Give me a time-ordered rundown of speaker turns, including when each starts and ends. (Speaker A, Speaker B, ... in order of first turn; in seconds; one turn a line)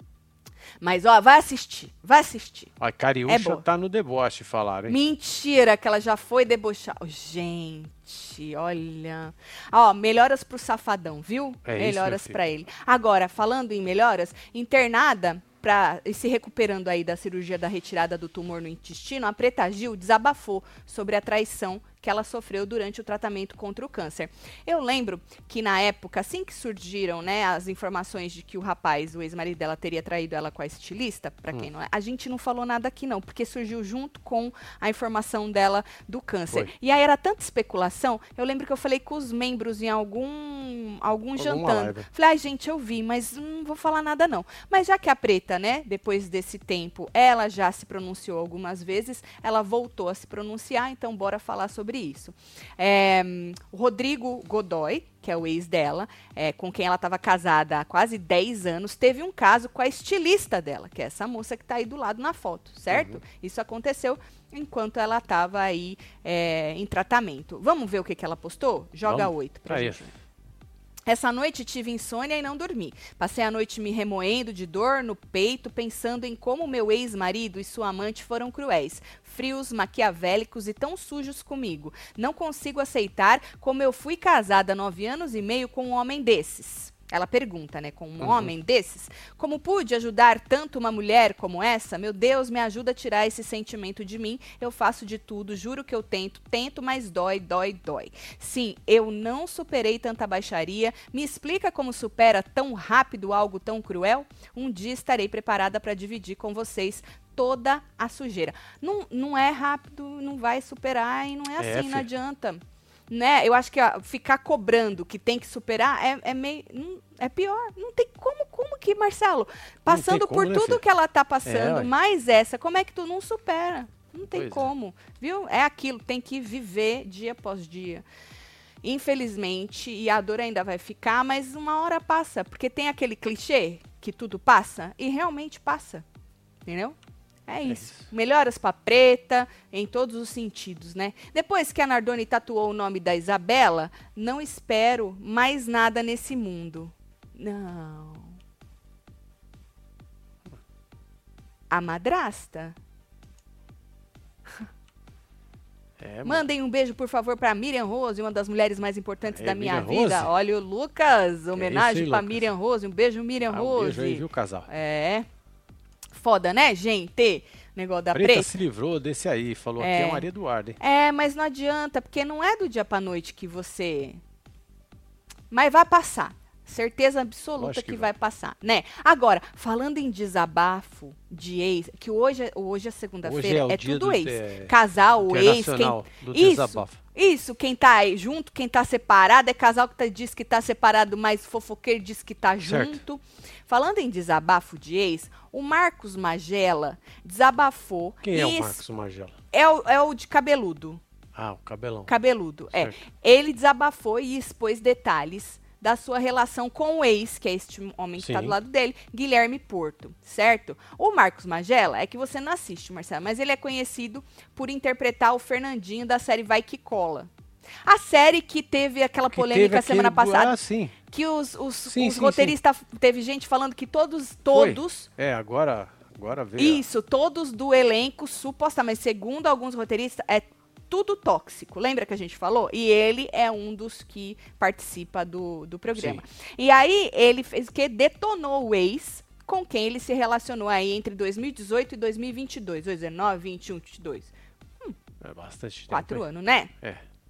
Speaker A: 0.8-2.7
Speaker B: 2.8-5.0
Speaker A: 3.3-3.6
Speaker A: 4.9-70.1
Speaker B: 11.7-12.4
Speaker B: 41.4-42.1
Speaker B: 62.9-63.2
Speaker B: 69.0-70.1
Speaker A: 71.1-128.0
Speaker B: 88.2-88.5
Speaker B: 111.6-112.1
Speaker B: 119.9-120.8
Speaker B: 121.5-121.9
Speaker B: 124.3-124.7
Speaker A: 128.8-136.0
Speaker A: 136.7-136.9
Speaker A: 137.5-148.4
Speaker B: 137.7-138.1
Speaker A: 151.7-152.8
Speaker B: 156.0-156.5
Speaker A: 156.2-165.3
Speaker B: 159.3-160.3
Speaker B: 161.6-162.5
Speaker B: 163.5-164.7
Speaker A: 166.1-168.5
Speaker B: 168.1-170.8
Speaker A: 169.8-170.3
Speaker A: 170.8-174.2
Speaker A: 175.5-198.8
Speaker B: 177.6-178.1
Speaker B: 183.2-184.7
Speaker B: 185.3-187.0
Speaker B: 192.6-193.0
Speaker B: 198.2-199.3
Speaker A: 199.5-201.0
Speaker B: 201.3-202.1
Speaker A: 202.1-217.3
Speaker B: 208.2-208.6
Speaker A: 217.9-220.6
Speaker B: 219.3-221.0
Speaker A: 221.1-225.1
Speaker B: 221.9-222.6
Speaker B: 224.5-226.8
Speaker A: 226.6-244.9
Speaker B: 236.0-236.2
Speaker B: 245.2-246.3
Speaker A: 245.9-246.7